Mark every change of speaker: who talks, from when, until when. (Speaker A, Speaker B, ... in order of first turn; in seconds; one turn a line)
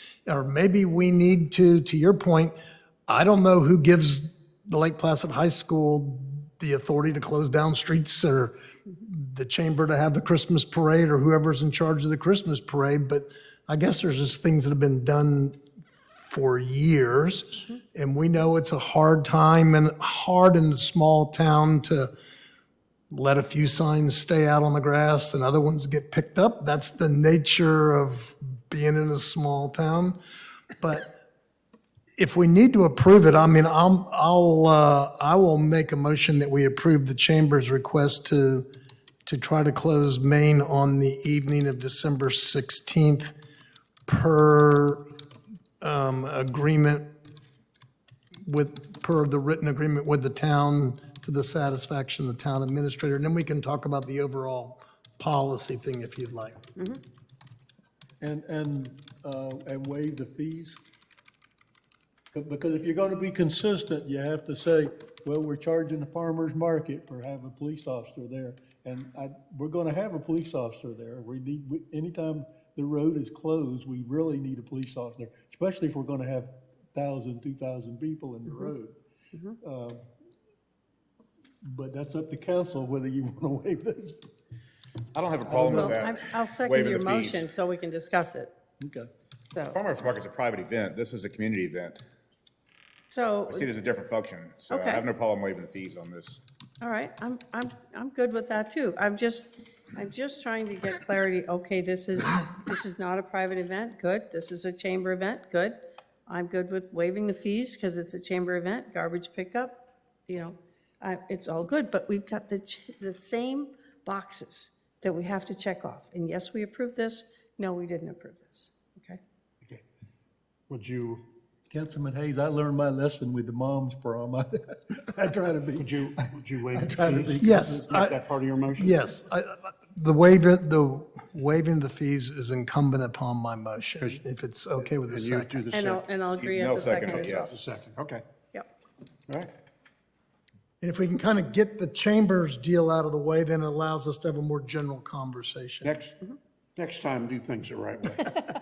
Speaker A: 0.3-2.5
Speaker A: 3.1-15.6
Speaker A: 16.2-22.1
Speaker A: 23.1-30.2
Speaker A: 30.8-31.1
Speaker A: 32.2-38.6
Speaker A: 39.2-43.3
Speaker A: 44.1-45.0
Speaker A: 45.8-47.1
Speaker A: 48.4-56.6
Speaker B: 58.2-60.8
Speaker B: 62.3-78.9
Speaker B: 79.6-80.0
Speaker B: 81.6-84.2
Speaker C: 85.1-87.5
Speaker B: 85.4-86.0
Speaker D: 85.7-88.5
Speaker B: 88.8-89.1
Speaker C: 89.7-92.0
Speaker D: 93.1-93.7
Speaker C: 93.5-96.4
Speaker D: 94.7-95.0
Speaker D: 96.8-105.7
Speaker D: 106.3-119.2
Speaker E: 120.7-121.2
Speaker B: 121.7-125.9
Speaker E: 125.8-129.0
Speaker B: 126.7-127.8
Speaker A: 127.4-128.1
Speaker A: 128.8-135.6
Speaker E: 134.8-136.1
Speaker D: 135.7-137.6
Speaker C: 136.3-137.6
Speaker E: 137.2-138.2
Speaker A: 140.8-145.9
Speaker E: 145.8-146.1
Speaker E: 146.8-148.3